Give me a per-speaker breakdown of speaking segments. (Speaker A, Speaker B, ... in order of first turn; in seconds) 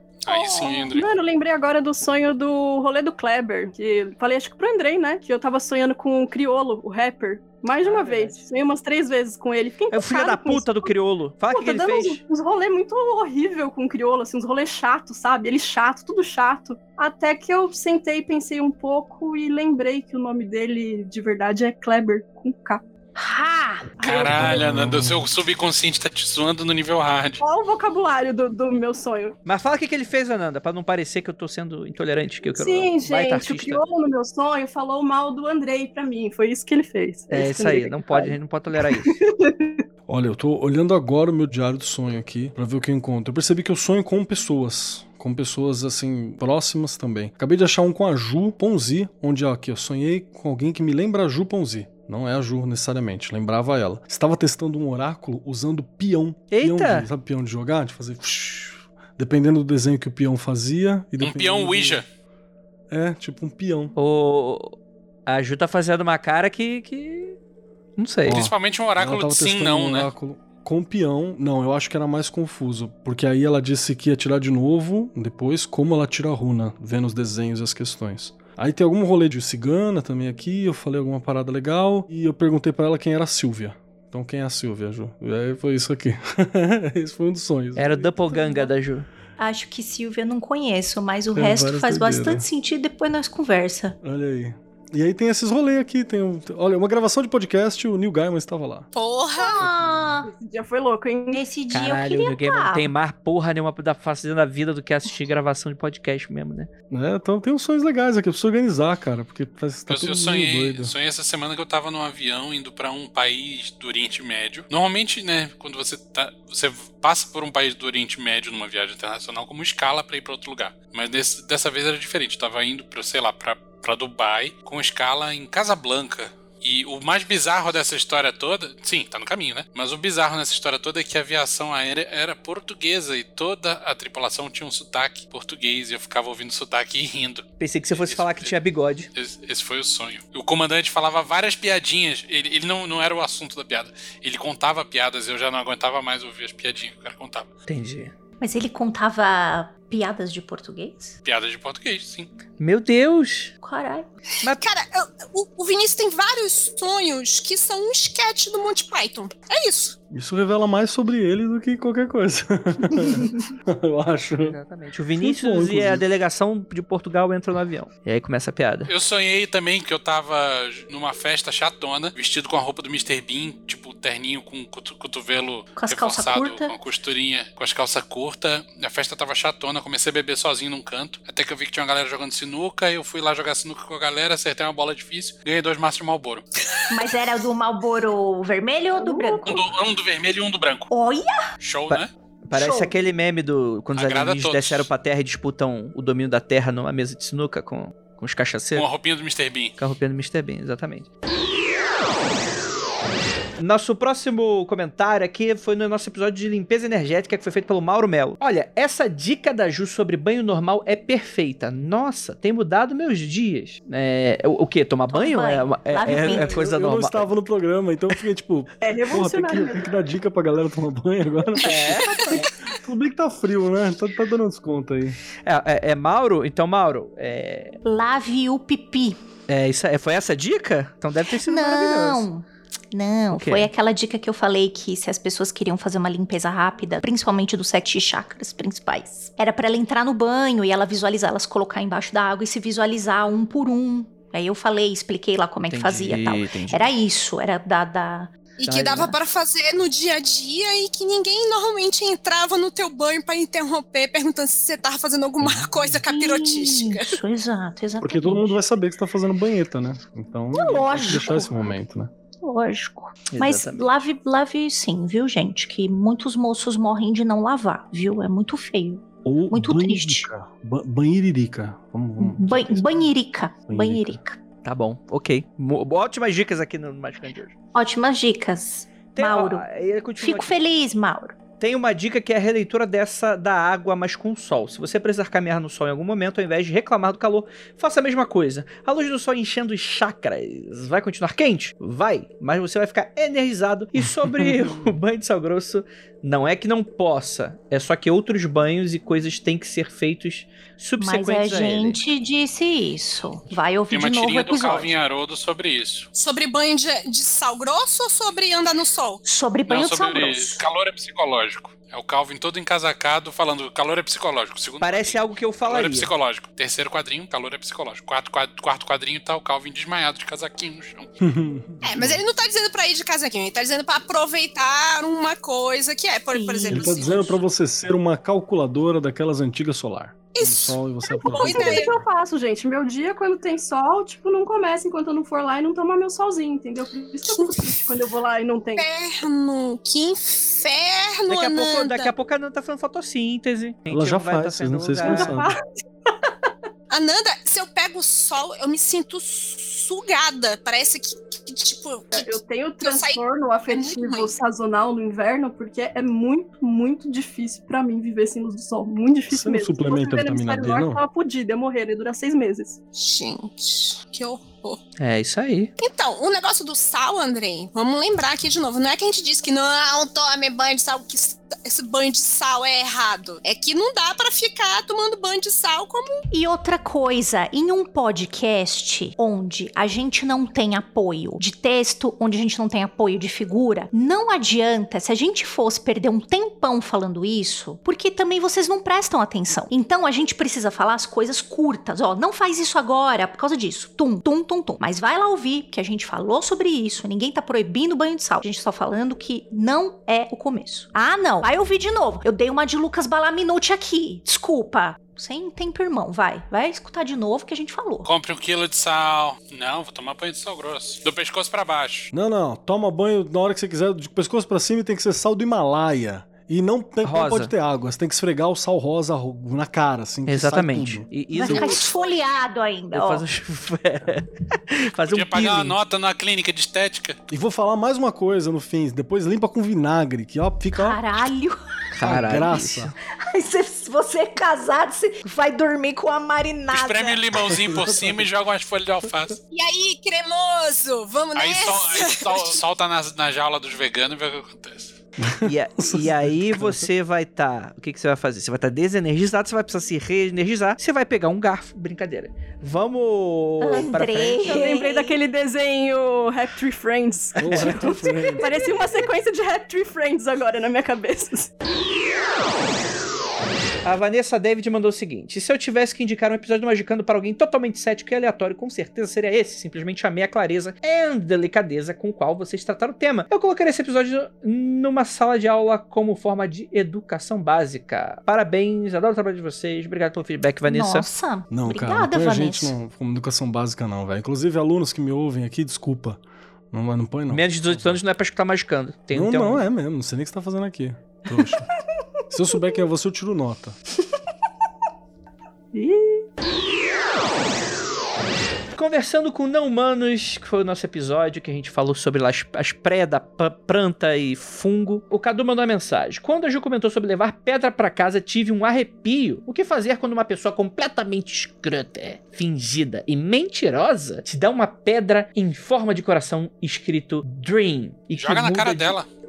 Speaker A: 0.2-1.1, 24.0-27.4, 61.2-62.0, 68.2-70.1, 109.9-138.5, 139.1-147.5, 151.2-152.3, 168.9-186.4, 189.4-190.9, 191.6-192.1, 193.9-194.9, 198.7-199.7, 303.9-306.1, 309.7-321.1, 408.0-412.1, 425.1-427.2, 436.7-439.4, 441.3-445.0, 518.1-519.1
Speaker B: 0.3-0.9, 23.1-24.0, 89.4-94.0, 99.4-100.3, 101.3-102.9, 148.4-151.1, 153.6-154.1, 175.8-176.7, 186.9-189.7, 190.9-191.4, 192.5-192.9, 215.1-216.7, 227.8-229.2, 231.4-248.3, 256.1-258.6, 260.5-261.5, 262.4-270.3, 272.2-274.4, 277.7-279.6, 280.2-281.4, 301.0-304.9, 309.2-310.6, 326.3-326.9, 376.3-408.1, 421.3-423.2, 430.7-432.4, 433.3-437.2, 453.6-455.1, 480.6-482.7
Speaker C: 0.3-10.9, 11.5-22.8, 24.0-24.6, 27.4-29.4, 32.5-39.8, 100.2-101.4, 189.1-189.3, 218.8-219.9, 331.3-338.9, 345.0-346.1, 352.1-362.8, 454.4-461.5, 495.7-496.2
Speaker D: 7.8-8.4, 9.9-12.2, 29.4-33.8, 37.3-39.2, 56.5-57.1, 64.0-64.7, 65.3-67.4, 68.0-68.4, 87.8-89.1, 101.7-106.7, 137.6-139.1, 147.7-148.1, 152.6-153.5, 164.4-168.9, 191.9-198.8, 199.8-201.1, 203.6-217.3, 221.6-222.5, 225.4-227.8, 229.5-232.2, 233.3-233.7, 245.7-246.9, 248.7-249.2, 255.4-256.0, 260.6-261.5, 263.3-263.9, 274.6-277.5, 279.1-280.6, 281.6-302.0, 314.8-316.1, 341.3-345.4, 365.0-365.7, 417.0-417.5, 420.2-422.1, 422.9-425.8, 431.9-432.9, 445.4-454.6, 463.8-481.1, 487.3-489.6, 498.8-519.0
Speaker E: 24.4-25.3, 40.1-62.0, 62.9-63.9, 68.2-88.5, 91.3-92.5, 94.0-98.9, 106.9-110.9, 160.1-164.6, 165.2-166.0, 216.1-225.2, 258.0-262.1, 269.2-273.1, 273.7-274.2, 294.2-294.9, 321.2-322.2, 326.7-332.0, 343.9-345.5, 359.3-361.0, 412.1-421.8, 427.3-431.0, 432.0-432.9, 437.6-438.2, 445.2-446.9, 457.4-458.5, 481.5-488.0, 489.1-491.7, 492.3-493.8
Speaker F: 98.9-99.6, 154.4-160.0, 221.6-222.4, 248.6-257.2, 306.1-309.2, 321.8-327.4, 330.3-332.0, 337.3-337.8, 338.8-342.1, 346.9-354.3, 362.9-364.8, 365.8-376.2, 439.5-442.6